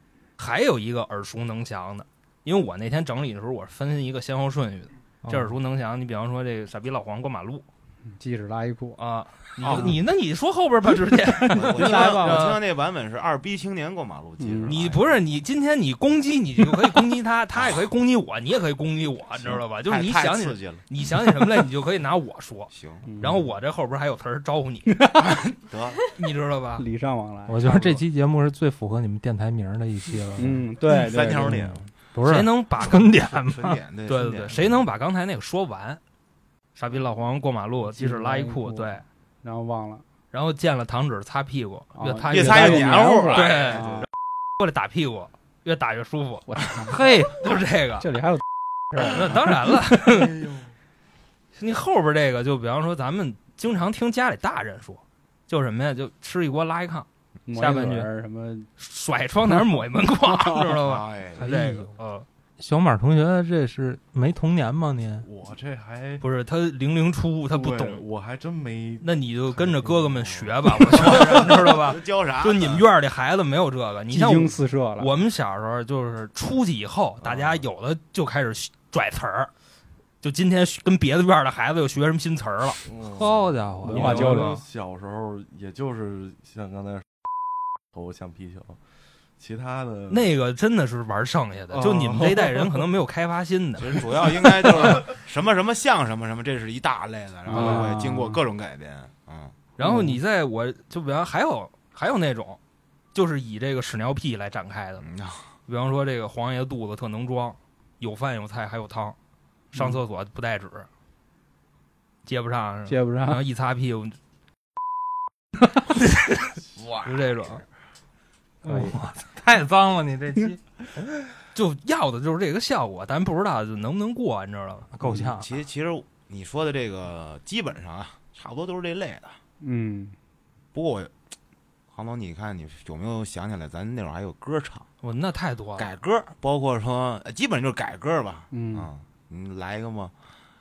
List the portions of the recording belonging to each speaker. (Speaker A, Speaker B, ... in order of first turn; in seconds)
Speaker A: 0.4-7.6, 9.0-12.6, 14.7-25.2, 26.1-26.8, 32.2-33.1, 34.1-36.0, 36.8-39.0, 40.3-44.0, 44.6-46.5, 47.3-48.1, 49.0-50.4, 51.5-58.1, 58.8-62.2, 66.2-68.0, 69.0-79.5, 80.2-82.8, 90.1-95.0, 97.5-97.9, 99.8-102.6, 103.1-105.1, 105.7-109.2, 109.7-110.9, 112.2-114.2, 115.8-117.6, 121.5-124.9, 135.0-135.9
Speaker B: 5.2-5.5, 27.5-30.6, 32.1-33.8, 46.8-47.4, 61.4-61.9, 62.6-65.3, 83.0-84.6, 118.6-120.6, 124.9-125.5
Speaker C: 8.2-9.0, 11.5-12.5, 14.4-14.8, 23.1-23.4, 26.8-27.8, 30.4-31.8, 37.9-40.0, 41.9-44.0, 46.5-49.5, 57.5-58.7, 60.2-60.8, 74.1-75.2, 83.8-84.6, 97.5-98.4, 99.8-100.2, 109.7-110.0, 112.8-113.4, 118.6-119.0, 129.6-130.1, 138.5-138.9
Speaker D: 9.6-10.0, 11.5-15.2, 17.6-17.9, 19.4-20.8, 22.7-23.1, 25.1-26.0, 30.9-31.8, 32.9-34.8, 42.3-44.1, 60.8-61.4, 70.8-72.8, 93.8-99.5, 105.0-105.5, 116.8-117.5, 125.2-129.4, 130.7-131.1, 131.9-134.8, 135.8-140.1
Speaker E: 65.2-66.2, 67.5-70.3, 77.2-77.6, 82.8-87.0, 87.9-88.8, 89.4-90.3, 91.7-92.8